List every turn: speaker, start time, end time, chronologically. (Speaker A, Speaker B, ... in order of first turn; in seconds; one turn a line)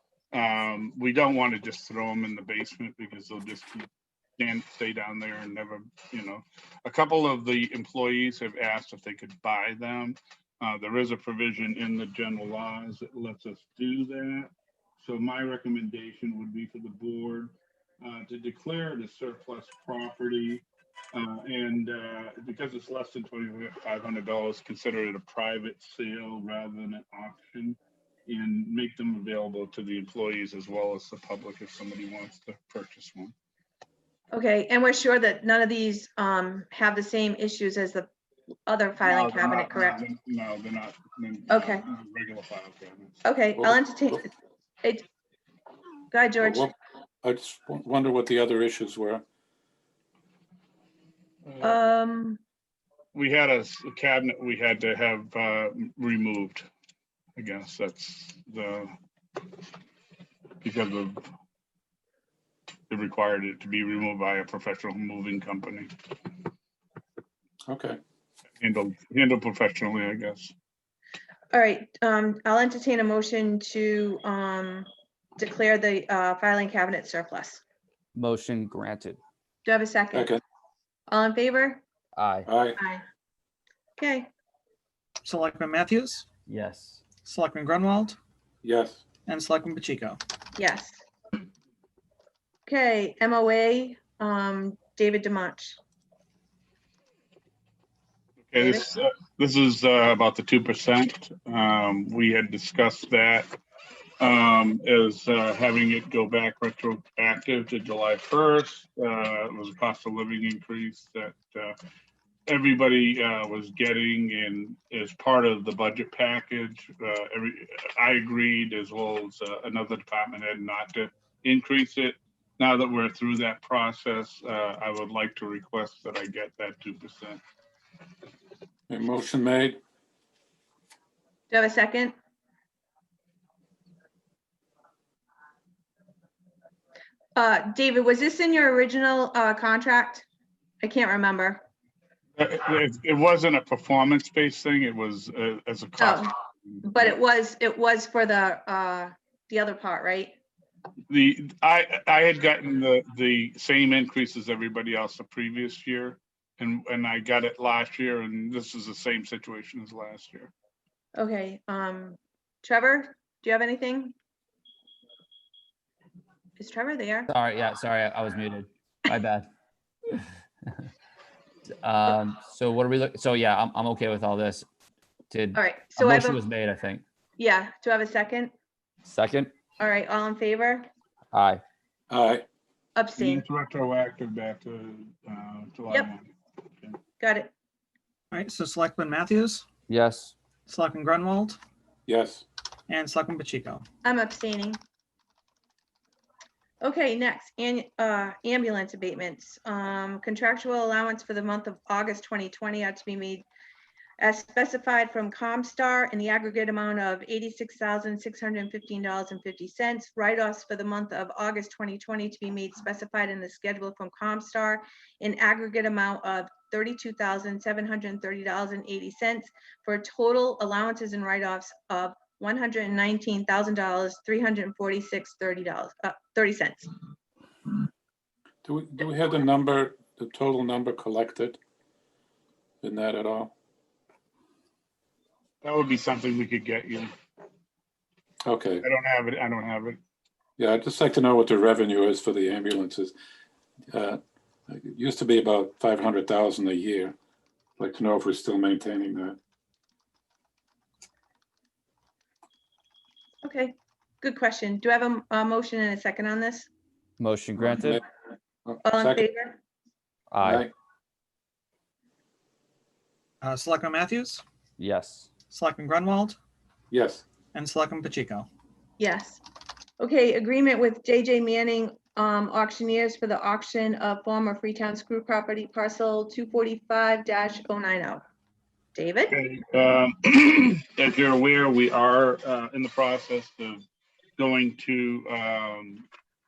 Speaker A: 0.3-33.3
Speaker B: 34.3-38.1
Speaker B: 38.7-40.0
Speaker A: 39.0-43.2
Speaker B: 41.5-41.8
Speaker B: 43.2-44.3
Speaker C: 43.6-44.2
Speaker B: 46.1-46.7
Speaker C: 46.4-46.7
Speaker C: 47.2-49.2
Speaker B: 51.6-52.4
Speaker A: 53.1-56.7
Speaker A: 57.4-58.9
Speaker A: 60.6-61.3
Speaker A: 62.9-65.9
Speaker C: 67.7-68.0
Speaker A: 68.6-70.5
Speaker B: 71.5-77.6
Speaker D: 78.1-79.2
Speaker B: 79.6-80.3
Speaker C: 80.1-80.4
Speaker B: 81.1-81.8
Speaker D: 82.1-82.5
Speaker C: 82.5-82.8
Speaker B: 82.8-83.0
Speaker B: 84.0-84.3
Speaker E: 85.2-86.3
Speaker D: 86.5-87.0
Speaker E: 87.2-88.2
Speaker C: 88.6-89.0
Speaker E: 89.2-90.2
Speaker B: 90.6-91.0
Speaker B: 92.7-95.8
Speaker A: 98.5-103.5
Speaker B: 98.6-98.9
Speaker A: 104.2-111.8
Speaker A: 112.5-127.4
Speaker C: 128.9-129.8
Speaker B: 131.5-132.1
Speaker B: 137.3-140.2
Speaker B: 140.8-141.6
Speaker A: 142.4-147.1
Speaker B: 146.0-150.3
Speaker A: 151.1-160.5
Speaker B: 161.1-164.1
Speaker B: 166.6-167.3
Speaker D: 167.3-169.5
Speaker D: 171.8-174.7
Speaker D: 175.3-177.0
Speaker B: 175.5-176.4
Speaker B: 177.4-178.5
Speaker D: 179.0-179.5
Speaker B: 179.8-180.9
Speaker D: 181.3-181.6
Speaker C: 182.1-182.4
Speaker B: 182.9-183.4
Speaker A: 183.2-186.3
Speaker B: 187.2-187.5
Speaker E: 188.3-189.7
Speaker D: 189.9-190.3
Speaker E: 190.7-191.6
Speaker C: 192.1-192.4
Speaker E: 192.9-193.8
Speaker B: 194.0-194.8
Speaker B: 196.8-203.4
Speaker B: 204.2-226.9
Speaker C: 228.6-231.6
Speaker C: 232.8-233.5
Speaker A: 235.6-237.1
Speaker C: 238.4-238.8
Speaker A: 238.8-240.0
Speaker C: 240.6-243.1
Speaker C: 243.9-247.1
Speaker C: 247.8-249.4
Speaker B: 253.4-256.7
Speaker D: 257.2-258.0
Speaker C: 258.6-259.2
Speaker B: 258.8-259.6
Speaker D: 260.3-260.7
Speaker C: 260.4-260.7
Speaker E: 263.4-264.4
Speaker D: 264.8-265.3
Speaker E: 265.5-266.4
Speaker C: 266.9-267.2
Speaker E: 267.5-268.5
Speaker B: 269.0-269.4
Speaker B: 270.0-278.2
Speaker B: 278.9-279.3
Speaker A: 279.3-283.8
Speaker A: 284.4-286.1